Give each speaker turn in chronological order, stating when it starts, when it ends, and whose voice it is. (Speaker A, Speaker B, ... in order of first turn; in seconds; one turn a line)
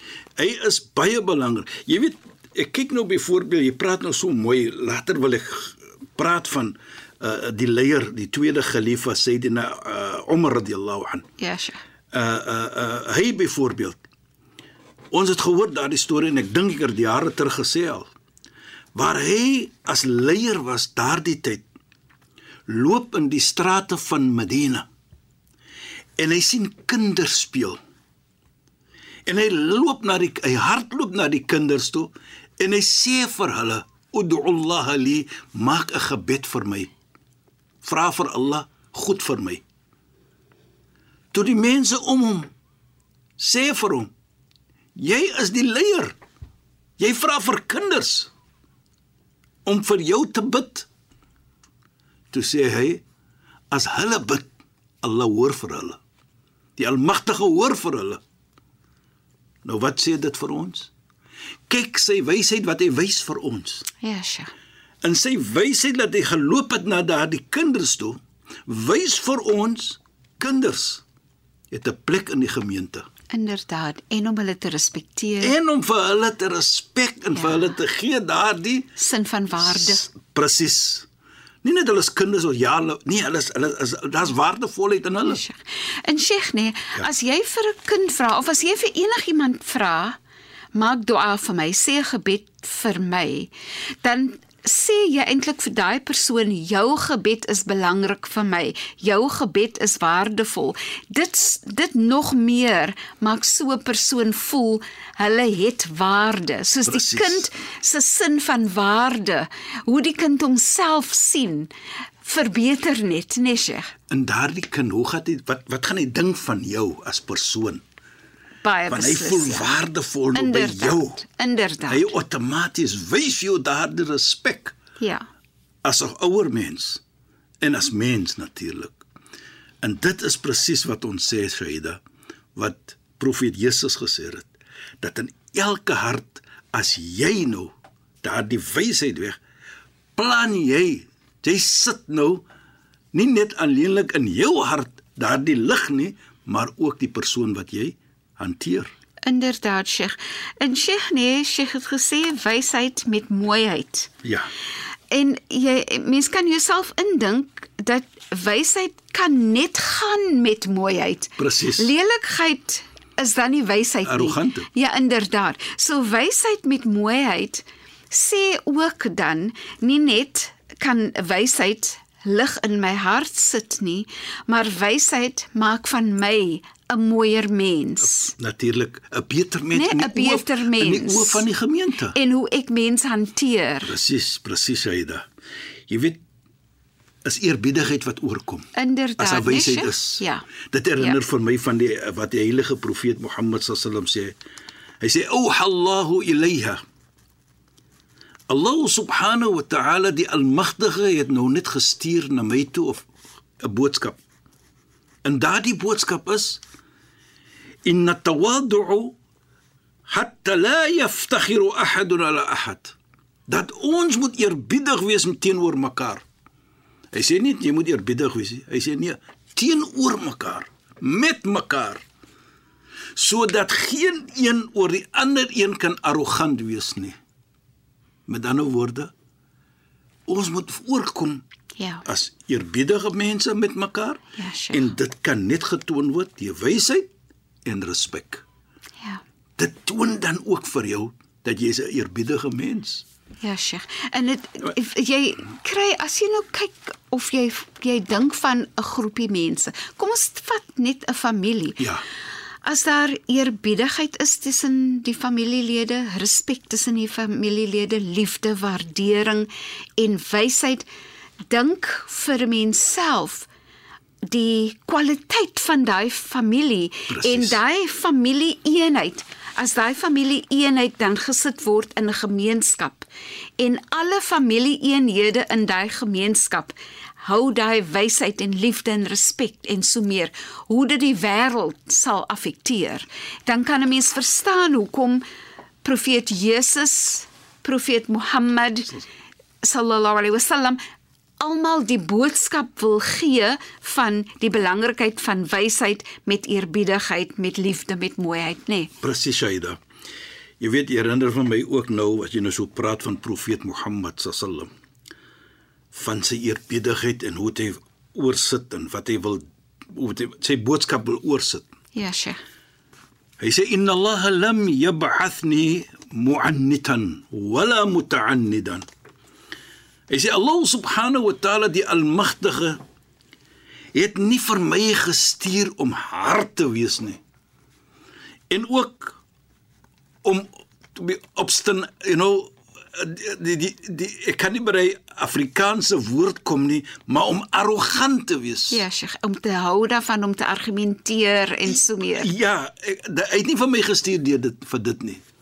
Speaker A: 0.4-11.2
Speaker B: 11.4-11.8
Speaker A: 12.1-14.0
Speaker A: 15.1-18.1
Speaker A: 18.9-21.6
Speaker A: 22.7-24.9
Speaker A: 26.2-27.8
Speaker A: 29.2-36.9
Speaker A: 37.8-39.6
Speaker A: 41.3-42.5
Speaker A: 43.4-44.1
Speaker A: 45.0-46.1
Speaker A: 47.0-48.3
Speaker A: 49.6-50.9
Speaker A: 52.3-53.0
Speaker A: 53.7-54.5
Speaker A: 55.0-56.0
Speaker A: 56.8-58.2
Speaker A: 59.6-60.9
Speaker A: 61.7-63.9
Speaker B: 64.0-64.5
Speaker A: 65.0-71.0
Speaker A: 71.7-73.1
Speaker B: 73.3-75.5
Speaker A: 75.4-78.9
Speaker B: 77.3-77.7
Speaker B: 79.0-80.0
Speaker A: 79.6-81.1
Speaker A: 81.6-85.4
Speaker B: 85.2-90.2
Speaker B: 90.7-93.5
Speaker B: 94.0-111.7
Speaker A: 106.8-107.5
Speaker B: 112.2-113.9
Speaker A: 114.1-117.8
Speaker B: 118.6-119.7
Speaker A: 118.9-121.2
Speaker B: 120.3-122.0
Speaker A: 121.9-124.8
Speaker B: 125.0-125.2
Speaker A: 125.8-127.0
Speaker A: 127.6-129.0
Speaker A: 129.8-132.0
Speaker A: 132.5-139.4
Speaker A: 140.2-142.4
Speaker A: 143.1-148.9
Speaker B: 149.2-154.1
Speaker A: 154.2-154.5
Speaker B: 155.1-178.3
Speaker A: 161.4-161.9
Speaker A: 164.0-164.7
Speaker A: 178.0-182.2
Speaker B: 179.7-181.4
Speaker B: 182.1-183.9
Speaker A: 183.8-185.2
Speaker A: 185.9-186.2
Speaker A: 187.2-194.4
Speaker B: 188.7-190.5
Speaker A: 195.0-196.8
Speaker A: 198.5-203.1
Speaker A: 203.6-204.2
Speaker A: 205.2-206.6
Speaker A: 207.8-209.2
Speaker A: 210.1-212.9
Speaker A: 213.5-216.2
Speaker A: 217.1-222.0
Speaker A: 223.2-227.2
Speaker A: 228.3-229.1
Speaker A: 230.3-231.4
Speaker B: 231.8-232.0
Speaker A: 232.0-237.1
Speaker B: 234.4-234.9
Speaker A: 237.6-238.4
Speaker A: 239.6-243.0
Speaker B: 243.4-251.9
Speaker A: 251.8-252.0
Speaker B: 252.6-260.9
Speaker B: 261.5-263.5
Speaker B: 264.3-273.1
Speaker A: 267.1-267.6
Speaker B: 273.6-285.2
Speaker B: 285.8-289.0
Speaker B: 289.6-290.8
Speaker B: 291.4-298.9
Speaker A: 299.0-299.8
Speaker A: 300.6-304.7
Speaker A: 305.9-311.6
Speaker B: 311.9-312.4
Speaker A: 313.4-318.8
Speaker A: 320.1-322.8
Speaker A: 323.9-327.2
Speaker A: 328.5-329.2
Speaker A: 330.2-338.8
Speaker B: 338.7-342.3
Speaker A: 341.7-345.2